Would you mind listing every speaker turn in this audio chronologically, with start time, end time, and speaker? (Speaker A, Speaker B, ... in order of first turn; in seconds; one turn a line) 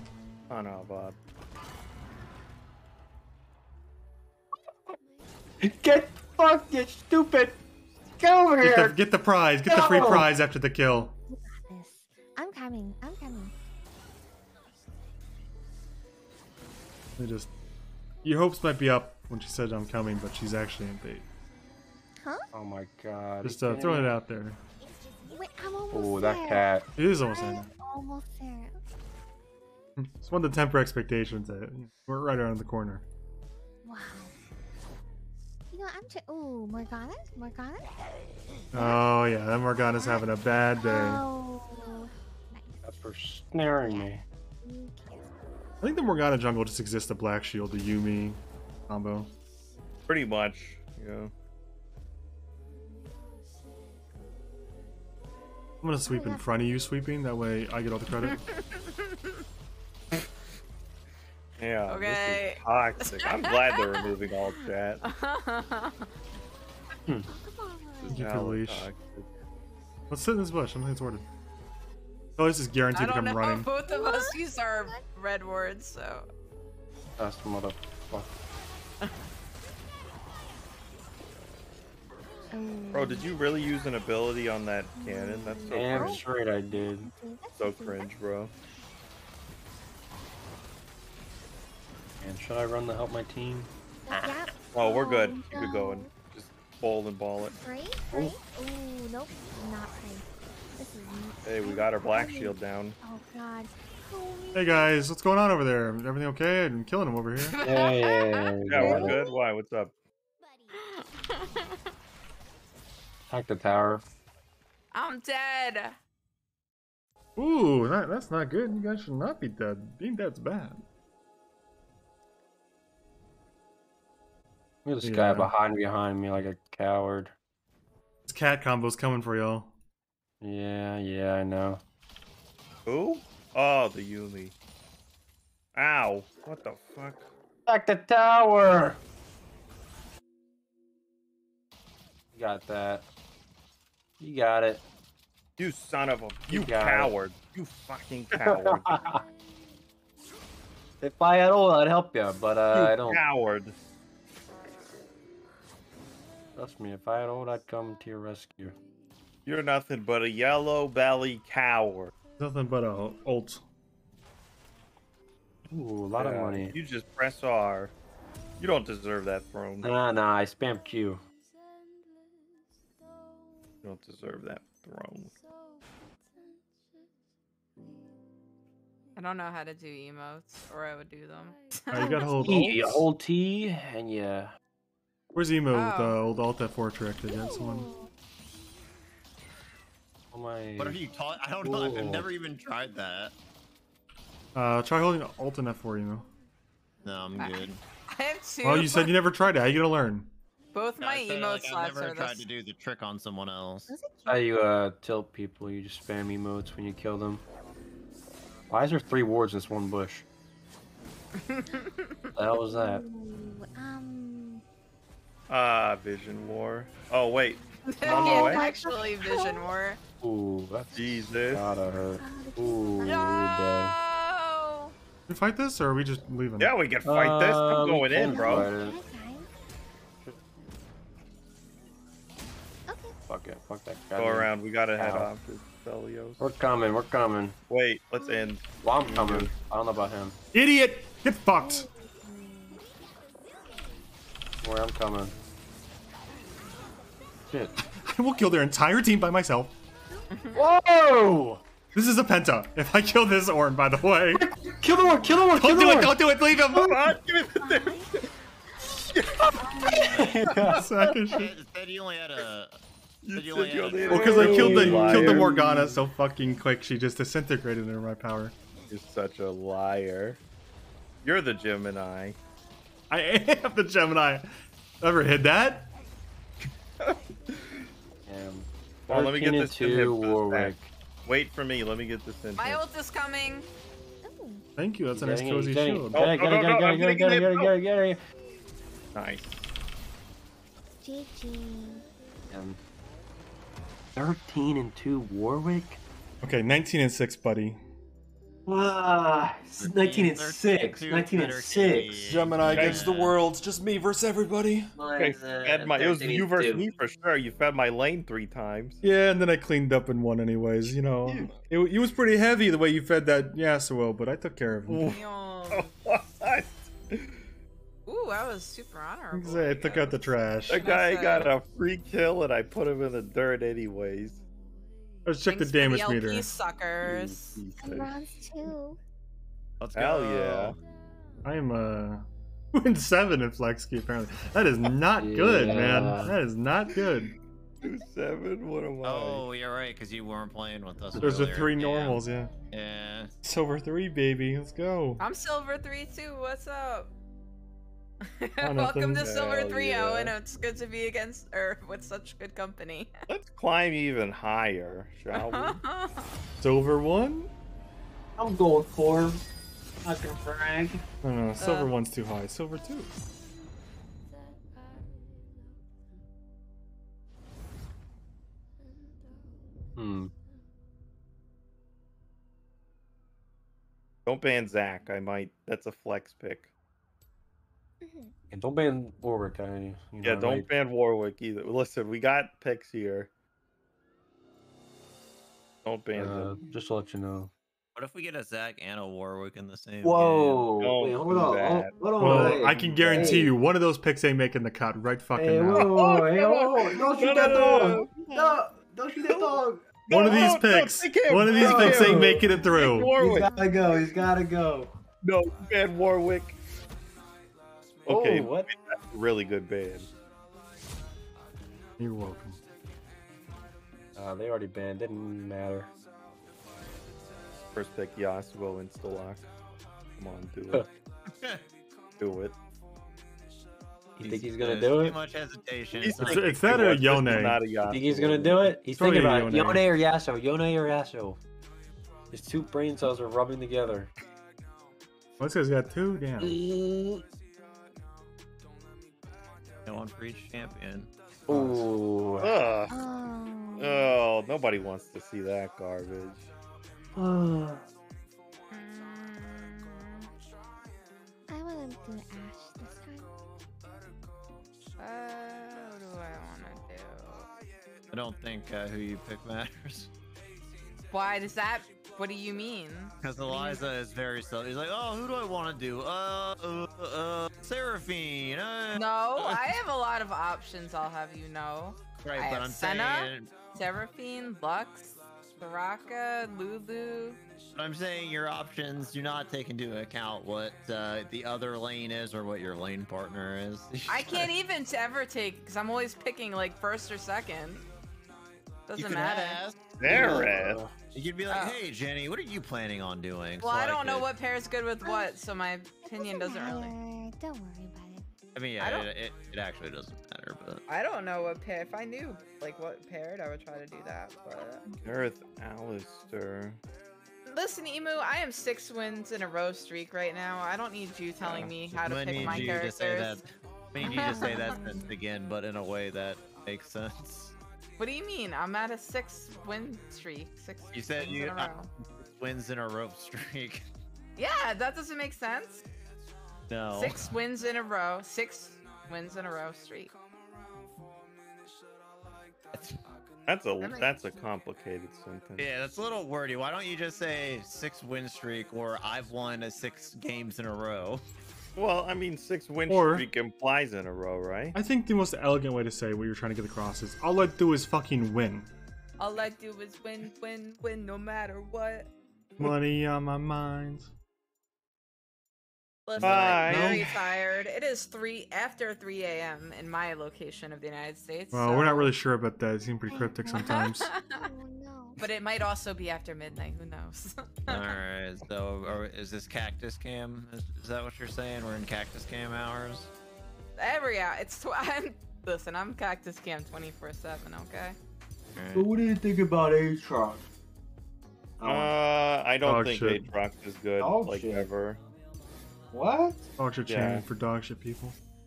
Speaker A: 0.5-1.2
Speaker B: 5.8-6.2
Speaker C: 5.8-7.5
Speaker B: 6.8-7.4
Speaker C: 8.2-8.9
Speaker D: 8.6-11.1
Speaker C: 9.7-10.3
Speaker E: 11.3-13.5
Speaker D: 17.2-17.5
Speaker D: 18.2-21.3
Speaker E: 22.2-22.5
Speaker C: 22.5-24.2
Speaker D: 23.4-24.6
Speaker E: 25.2-26.7
Speaker C: 25.9-26.9
Speaker D: 27.0-27.7
Speaker E: 27.2-28.8
Speaker D: 30.0-33.0
Speaker E: 33.8-34.3
Speaker E: 35.7-37.9
Speaker D: 38.7-41.2
Speaker E: 38.7-39.1
Speaker E: 39.8-42.8
Speaker C: 42.8-44.2
Speaker E: 43.9-45.3
Speaker D: 45.8-49.3
Speaker A: 50.1-51.3
Speaker D: 55.8-58.4
Speaker E: 56.0-56.5
Speaker F: 58.2-59.4
Speaker A: 61.6-65.0
Speaker F: 61.9-64.1
Speaker F: 65.0-66.1
Speaker E: 67.3-68.3
Speaker D: 68.1-68.9
Speaker A: 68.1-69.3
Speaker D: 70.1-71.3
Speaker D: 72.4-73.7
Speaker F: 72.9-76.3
Speaker E: 73.9-75.0
Speaker C: 77.2-78.4
Speaker E: 82.5-83.4
Speaker A: 82.9-86.2
Speaker E: 85.0-88.1
Speaker C: 85.7-87.1
Speaker A: 87.6-88.5
Speaker C: 92.2-93.7
Speaker E: 94.1-96.1
Speaker A: 94.7-97.6
Speaker E: 97.6-104.9
Speaker A: 101.5-103.0
Speaker D: 104.5-107.6
Speaker F: 107.4-108.5
Speaker C: 107.6-109.2
Speaker A: 108.7-109.9
Speaker E: 108.8-109.4
Speaker F: 110.8-111.8
Speaker C: 113.3-114.0
Speaker F: 114.9-116.0
Speaker D: 117.4-120.8
Speaker C: 124.8-127.3
Speaker D: 125.0-125.5
Speaker D: 128.3-129.7
Speaker C: 130.4-131.8
Speaker A: 132.9-134.5
Speaker A: 135.8-137.3
Speaker C: 137.7-139.0
Speaker C: 142.3-143.0
Speaker C: 144.2-144.8
Speaker A: 145.6-148.9
Speaker C: 146.5-147.1
Speaker C: 148.3-149.2
Speaker C: 151.0-153.2
Speaker A: 152.7-153.8
Speaker C: 156.6-158.8
Speaker A: 159.5-162.1
Speaker D: 162.4-163.6
Speaker C: 165.7-166.8
Speaker A: 166.2-167.9
Speaker A: 168.6-169.9
Speaker C: 169.8-171.2
Speaker A: 173.8-175.3
Speaker F: 179.2-182.5
Speaker D: 181.9-183.1
Speaker C: 182.4-184.5
Speaker D: 185.3-187.9
Speaker F: 185.7-186.2
Speaker E: 187.3-188.1
Speaker C: 190.3-191.0
Speaker G: 190.8-193.3
Speaker C: 191.7-192.2
Speaker D: 194.6-196.3
Speaker G: 197.0-197.8
Speaker E: 197.4-197.7
Speaker F: 198.1-199.3
Speaker D: 198.6-200.3
Speaker F: 200.7-202.5
Speaker G: 201.0-203.9
Speaker E: 203.9-204.5
Speaker C: 204.3-207.4
Speaker C: 208.7-210.2
Speaker F: 211.4-212.2
Speaker C: 212.4-213.1
Speaker E: 212.5-214.6
Speaker A: 215.5-218.7
Speaker F: 217.9-220.0
Speaker E: 218.0-219.7
Speaker C: 220.2-223.9
Speaker A: 220.9-221.7
Speaker E: 222.2-223.3
Speaker F: 223.0-224.9
Speaker D: 225.3-226.8
Speaker A: 226.6-228.7
Speaker C: 227.1-229.0
Speaker E: 228.2-229.5
Speaker E: 232.9-233.2
Speaker C: 233.3-235.3
Speaker A: 234.2-236.4
Speaker C: 236.4-237.6
Speaker A: 237.7-239.5
Speaker E: 238.2-238.6
Speaker C: 238.8-240.4
Speaker D: 240.5-241.9
Speaker E: 241.6-242.8
Speaker C: 244.6-245.3
Speaker C: 247.5-247.8
Speaker D: 248.0-249.7
Speaker F: 250.3-250.7
Speaker C: 250.6-251.6
Speaker D: 251.9-254.5
Speaker C: 254.8-256.2
Speaker B: 255.0-255.4
Speaker D: 255.5-257.1
Speaker A: 256.8-258.2
Speaker E: 257.6-258.2
Speaker A: 259.1-260.8
Speaker B: 260.1-260.8
Speaker C: 260.2-260.8
Speaker D: 260.7-261.5
Speaker G: 261.3-262.8
Speaker A: 263.2-265.5
Speaker G: 263.4-265.2
Speaker D: 264.1-268.5
Speaker B: 264.3-265.7
Speaker C: 264.6-265.4
Speaker A: 268.9-270.4
Speaker A: 271.2-272.4
Speaker D: 273.1-275.9
Speaker A: 277.0-277.9
Speaker C: 278.3-280.9
Speaker A: 279.1-280.7
Speaker A: 281.2-282.8
Speaker F: 282.6-283.7
Speaker E: 284.2-284.6
Speaker D: 284.8-286.2
Speaker C: 285.1-288.2
Speaker A: 286.1-287.8
Speaker A: 289.1-289.7
Speaker E: 291.0-292.1
Speaker C: 292.5-292.8
Speaker C: 294.1-296.0
Speaker D: 296.4-297.8
Speaker B: 298.7-302.3
Speaker G: 299.8-303.4
Speaker D: 302.2-304.9
Speaker A: 302.7-303.3
Speaker B: 304.9-306.8
Speaker A: 305.1-309.0
Speaker D: 309.0-315.2
Speaker A: 311.3-311.6
Speaker A: 314.9-317.4
Speaker F: 315.0-315.9
Speaker F: 318.1-321.5
Speaker D: 319.3-320.8
Speaker A: 320.7-324.4
Speaker D: 325.3-326.5
Speaker F: 325.5-327.6
Speaker A: 327.0-328.7
Speaker E: 327.8-329.0
Speaker G: 329.8-330.8
Speaker A: 330.0-330.8
Speaker D: 331.4-337.3
Speaker C: 335.1-336.4
Speaker A: 335.6-336.3
Speaker A: 337.8-339.4
Speaker G: 339.0-343.3
Speaker D: 341.2-342.5
Speaker D: 343.4-345.2
Speaker F: 345.2-347.1
Speaker F: 348.2-353.1
Speaker D: 348.6-349.3
Speaker A: 349.2-350.3
Speaker A: 353.3-355.8
Speaker F: 355.3-356.4
Speaker D: 356.6-357.5
Speaker B: 358.4-359.4
Speaker B: 360.1-361.0
Speaker D: 361.2-363.1
Speaker F: 361.6-361.9
Speaker C: 370.0-370.3
Speaker A: 374.3-376.7
Speaker E: 378.0-378.3
Speaker C: 378.5-380.7
Speaker A: 380.2-383.3
Speaker A: 385.8-386.6
Speaker C: 386.1-387.5
Speaker G: 387.9-390.7
Speaker B: 390.0-393.5
Speaker A: 390.8-393.4
Speaker D: 392.2-396.3
Speaker B: 395.4-400.4
Speaker A: 395.7-398.1
Speaker E: 397.4-398.6
Speaker A: 399.2-403.5
Speaker D: 400.1-403.2
Speaker B: 401.4-404.9
Speaker E: 403.4-404.0
Speaker A: 405.2-406.6
Speaker A: 408.1-410.1
Speaker C: 408.1-408.7
Speaker D: 412.0-412.6
Speaker C: 414.1-415.9
Speaker A: 417.8-419.5
Speaker A: 420.2-420.9
Speaker G: 421.3-421.6
Speaker A: 422.2-422.6
Speaker C: 424.2-425.2
Speaker G: 424.2-426.8
Speaker A: 426.0-428.8
Speaker D: 426.1-427.7
Speaker C: 427.8-431.4
Speaker D: 428.9-429.9
Speaker C: 432.3-434.1
Speaker D: 435.4-436.6
Speaker C: 436.4-437.2
Speaker G: 439.9-441.1
Speaker C: 441.5-442.5
Speaker A: 442.4-443.0
Speaker E: 442.9-444.1
Speaker A: 443.8-446.5
Speaker B: 447.2-447.8
Speaker F: 448.7-450.3
Speaker E: 451.5-453.3
Speaker F: 455.0-457.5
Speaker G: 458.1-460.1
Speaker F: 461.1-463.8
Speaker G: 463.2-469.8
Speaker F: 468.9-477.4
Speaker G: 472.2-473.5
Speaker G: 477.7-484.3
Speaker C: 483.9-484.5
Speaker F: 484.1-487.9
Speaker F: 488.9-489.6
Speaker G: 488.9-494.3
Speaker A: 490.0-490.8
Speaker C: 490.1-490.9
Speaker F: 491.5-491.8
Speaker F: 493.6-496.9
Speaker E: 495.0-495.3
Speaker E: 496.0-498.2
Speaker G: 498.6-500.8
Speaker F: 498.8-499.1
Speaker F: 500.9-504.9
Speaker A: 504.9-506.8
Speaker F: 507.5-513.4
Speaker G: 511.4-517.5
Speaker A: 512.3-512.8
Speaker E: 514.0-515.1
Speaker F: 514.0-515.0
Speaker F: 518.0-521.9
Speaker G: 520.9-523.9
Speaker F: 524.4-525.8
Speaker G: 526.7-527.2
Speaker F: 527.0-530.1
Speaker G: 532.7-533.0
Speaker A: 533.5-535.7
Speaker G: 535.6-541.2
Speaker A: 541.8-544.8
Speaker D: 542.9-543.3
Speaker D: 544.8-548.7
Speaker F: 549.2-552.1
Speaker D: 552.6-554.1
Speaker F: 556.1-562.1
Speaker D: 556.2-557.0
Speaker A: 556.2-557.3
Speaker G: 556.4-557.0
Speaker D: 561.5-564.1
Speaker E: 563.1-563.7
Speaker F: 563.5-564.4
Speaker E: 564.3-565.2
Speaker F: 565.2-568.0
Speaker G: 567.7-573.1
Speaker F: 573.8-578.0
Speaker G: 578.6-578.9
Speaker B: 578.8-580.5
Speaker B: 581.6-581.9
Speaker A: 581.6-585.0
Speaker D: 582.6-583.2
Speaker B: 584.0-584.7
Speaker B: 585.9-586.5
Speaker D: 586.6-588.2
Speaker A: 586.9-587.2